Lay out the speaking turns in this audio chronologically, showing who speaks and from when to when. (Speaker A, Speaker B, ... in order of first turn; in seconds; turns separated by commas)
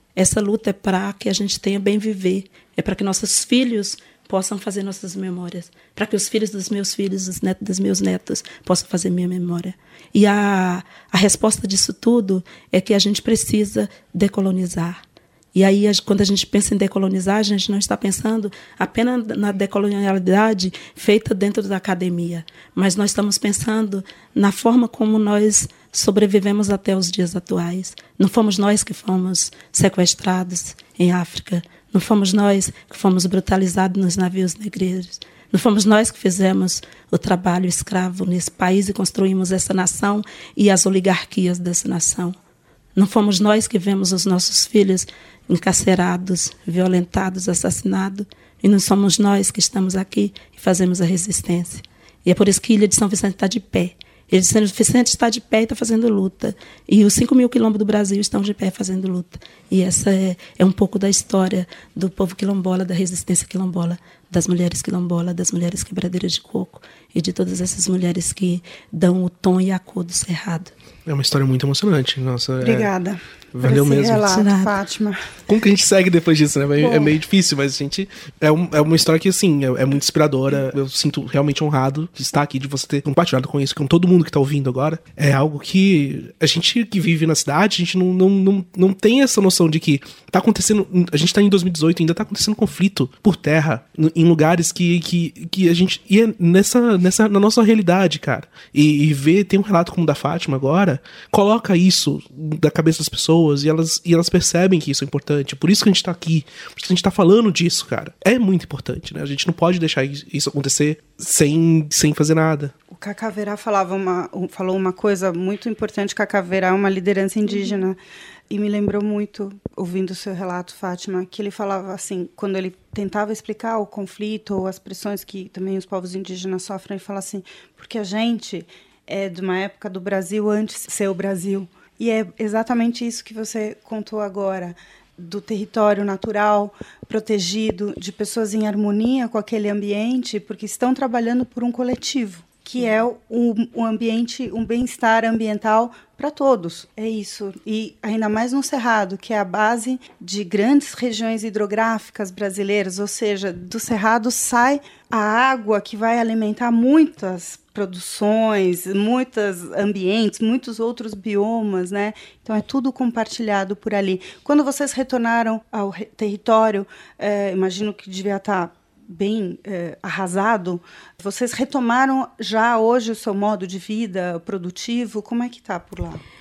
Speaker A: 0.1-15.0, Speaker A: 15.5-42.4, Speaker A: 43.0-70.7, Speaker B: 71.1-72.9, Speaker C: 72.6-75.2, Speaker B: 73.5-74.4, Speaker A: 74.3-74.7, Speaker B: 75.5-112.7, Speaker C: 76.8-77.2, Speaker C: 112.9-118.0, Speaker C: 118.5-176.2